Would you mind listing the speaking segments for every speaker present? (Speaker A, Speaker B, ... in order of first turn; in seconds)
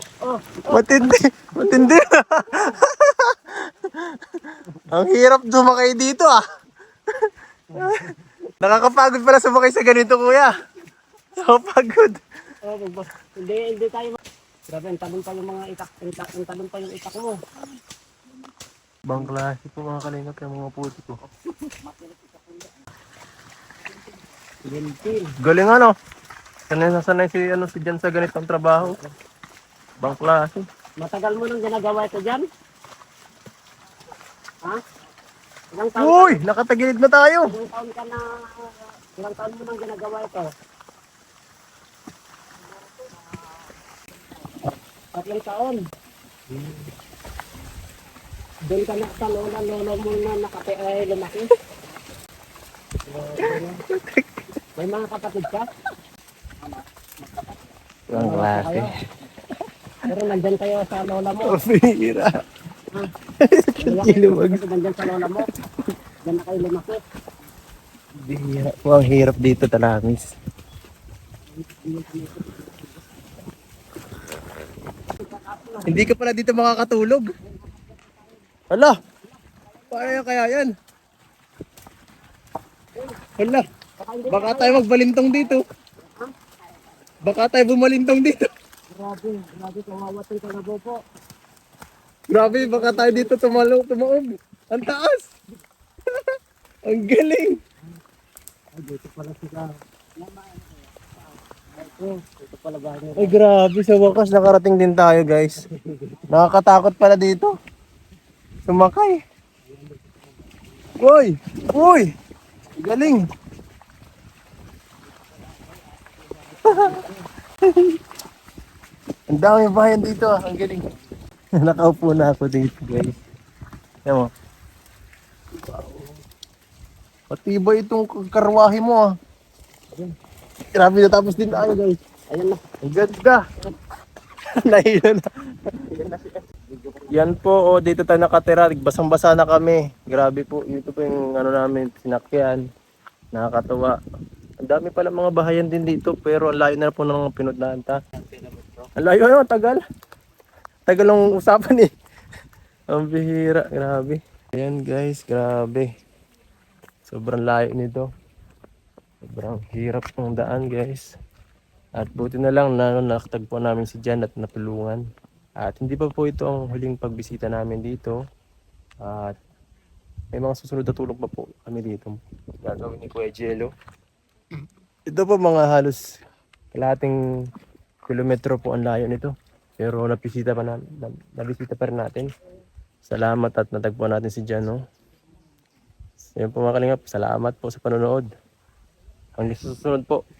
Speaker A: 0.2-1.1, 7.7-8.2, 12.6-17.4, 21.7-22.7, 24.6-25.3, 28.8-29.1, 31.0-32.5, 35.7-36.4, 37.4-40.5, 42.8-43.6, 44.4-45.8, 46.5-46.9, 48.7-51.5, 53.0-53.8, 54.8-55.7, 56.6-58.9, 60.1-61.6, 63.8-65.5, 66.2-67.0, 71.5-73.1, 75.1-76.0, 77.4-78.5, 79.2-80.2, 82.9-83.3, 84.0-86.5, 88.9-91.0, 92.4-93.6, 98.7-103.3, 105.7-106.3, 109.6-110.9, 112.9-113.2, 115.1-117.2, 132.3-132.6, 136.7-137.2, 148.1-148.9
Speaker B: 0.7-6.4, 7.1-10.5, 11.4-12.2, 19.1-21.2, 25.4-25.9, 26.7-29.0, 30.0-30.6, 36.0-37.5, 53.4-54.4, 58.1-58.9, 61.4-62.4, 63.4-64.6, 68.2-70.3, 75.8-77.3, 78.7-79.0, 79.9-80.7, 83.4-83.6, 84.3-85.6, 87.2-88.5, 92.3-95.3, 96.8-97.5, 103.2-105.6, 106.3-107.5, 108.7-109.2, 111.0-112.1, 112.8-113.3, 116.7-117.0, 117.7-118.0, 119.3-120.9, 121.6-123.2, 125.7-126.0, 127.3-129.1, 130.7-132.0, 132.8-133.4, 134.5-136.4, 137.1-142.6, 143.3-144.0, 144.6-148.0, 149.0-149.8, 150.9-151.9, 152.9-155.9, 157.1-158.1, 159.2-161.1, 162.0-165.0, 165.6-168.2, 169.0-169.3, 170.3-173.7, 175.1-176.0, 176.7-177.2, 178.1-182.3, 183.1-184.8, 186.4-188.3, 189.4-190.2